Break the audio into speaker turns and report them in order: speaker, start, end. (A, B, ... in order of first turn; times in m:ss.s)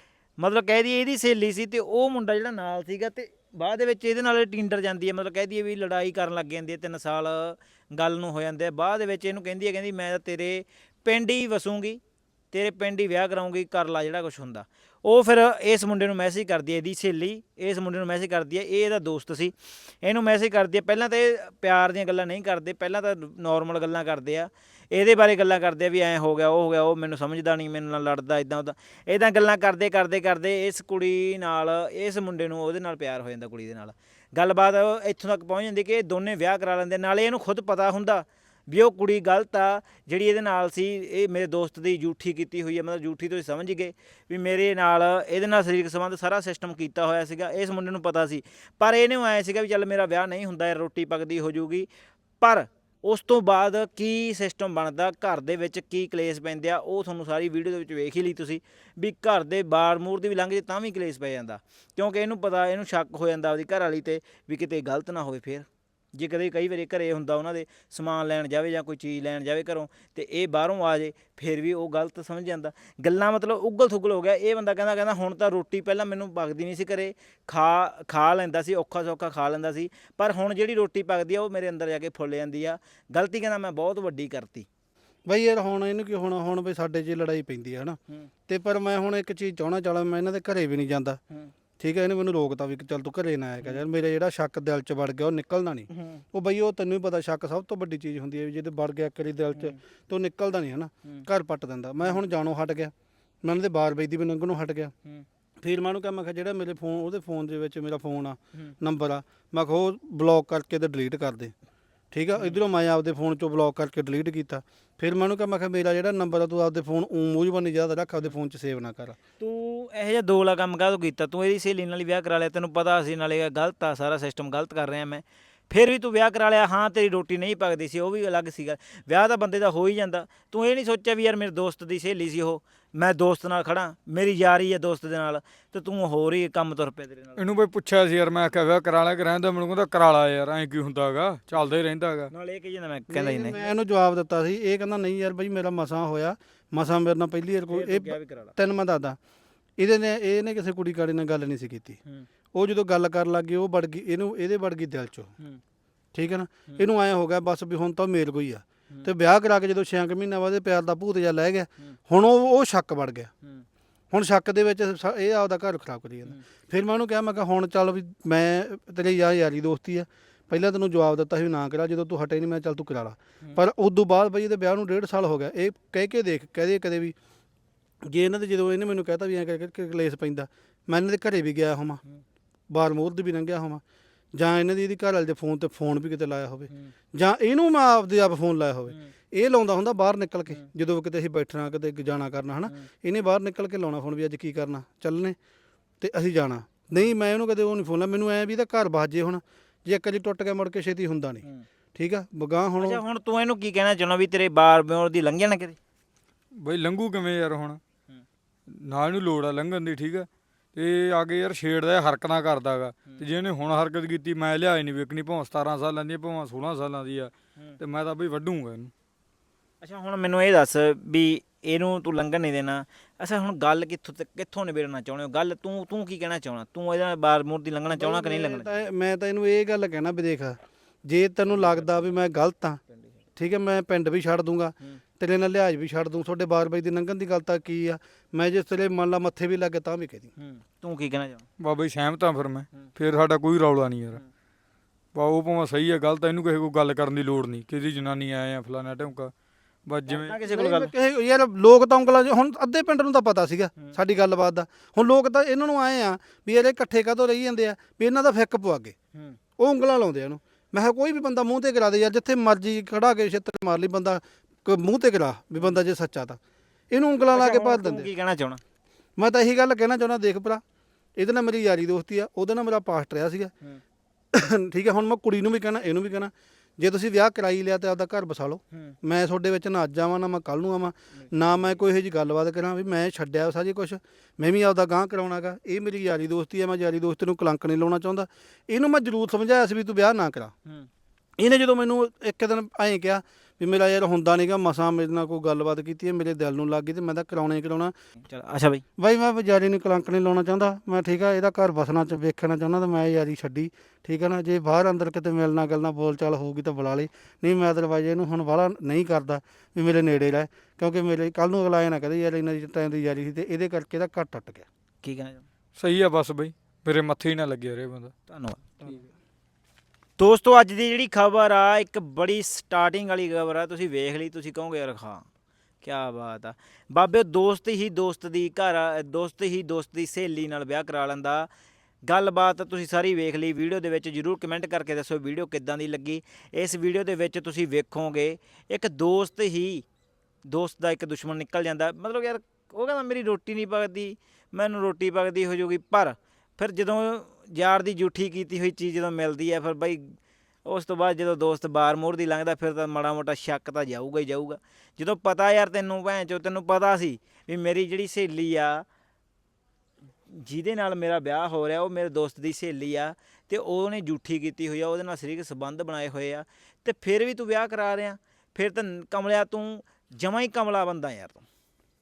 0:00.4-0:12.0 A
0:12.5-0:51.9 A
0:52.4-1:24.7 A
1:25.3-1:31.2 B
1:31.8-1:42.9 B
1:35.9-1:36.2 A
1:43.4-1:44.9 B
1:45.6-1:51.5 B
1:52.1-1:59.2 B
1:59.4-2:17.4 A
2:17.4-2:22.3 C
2:22.3-2:23.7 A
2:23.1-2:29.2 B
2:27.7-2:28.6 A
2:29.8-2:32.0 B
2:32.5-2:35.3 B
2:36.1-2:43.3 B
2:44.1-2:57.2 B
2:58.0-3:02.0 B
3:02.7-3:03.8 B
3:04.4-3:15.4 B
3:16.0-3:23.0 B
3:22.8-3:25.8 A
3:26.6-3:27.8 C
3:28.7-3:38.9 C
3:39.8-3:48.8 A
3:47.9-3:52.8 B
3:51.5-3:52.2 A
3:52.9-3:53.2 A
3:53.4-4:00.3 B
4:00.4-4:01.4 A
4:01.6-4:04.2 C
4:05.2-4:09.3 C
4:09.9-4:10.4 C
4:10.1-4:10.9 A
4:10.5-4:19.0 B
4:19.6-4:26.4 B
4:26.9-4:28.1 B
4:27.3-4:28.6 A
4:29.2-4:30.6 B
4:31.2-4:33.5 B
4:34.3-4:50.5 B
4:41.2-4:41.8 A
4:51.4-4:57.9 B
4:58.2-4:58.8 A
4:59.0-5:14.6 B
5:15.0-5:15.4 A
5:15.8-5:18.1 C
5:18.3-5:19.0 A
5:20.2-5:25.2 A
5:25.8-5:31.5 A
5:32.0-5:39.9 A
5:40.4-5:58.8 A
6:00.3-6:11.4 A